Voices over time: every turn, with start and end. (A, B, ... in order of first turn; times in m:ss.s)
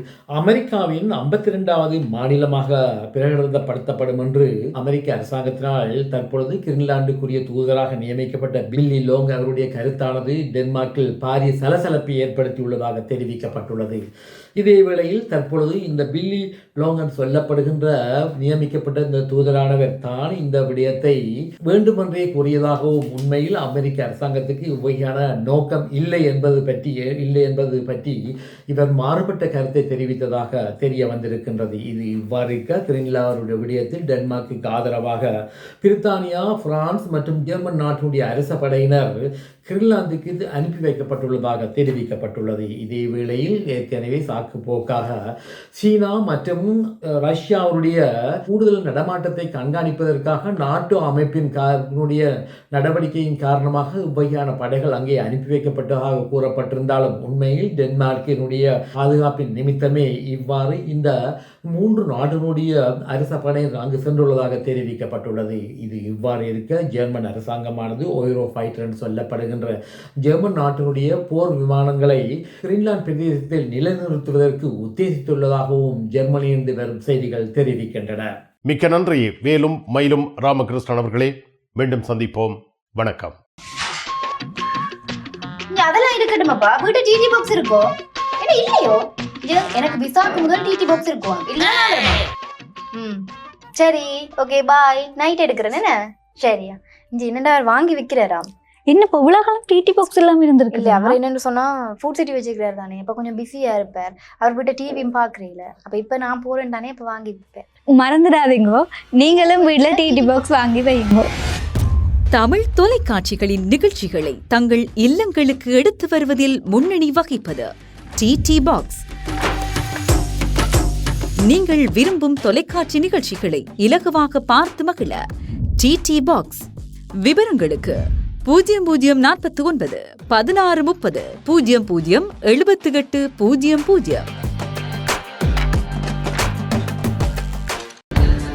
0:00.4-0:14.0 A
0:14.6-0:28.2 A
0:28.7-0:35.3 A
0:35.8-0:45.2 A
0:45.7-1:01.1 A
1:01.7-1:18.3 A
1:18.7-1:23.4 B
1:25.7-1:32.2 C
1:32.9-1:33.2 C
1:33.8-1:38.5 C
1:38.9-1:41.2 D
1:40.7-1:47.7 C
1:47.9-1:51.3 D
1:49.3-1:50.4 C
1:52.3-1:59.0 E
2:01.5-2:05.2 E
2:05.8-2:06.6 E
2:07.2-2:14.3 E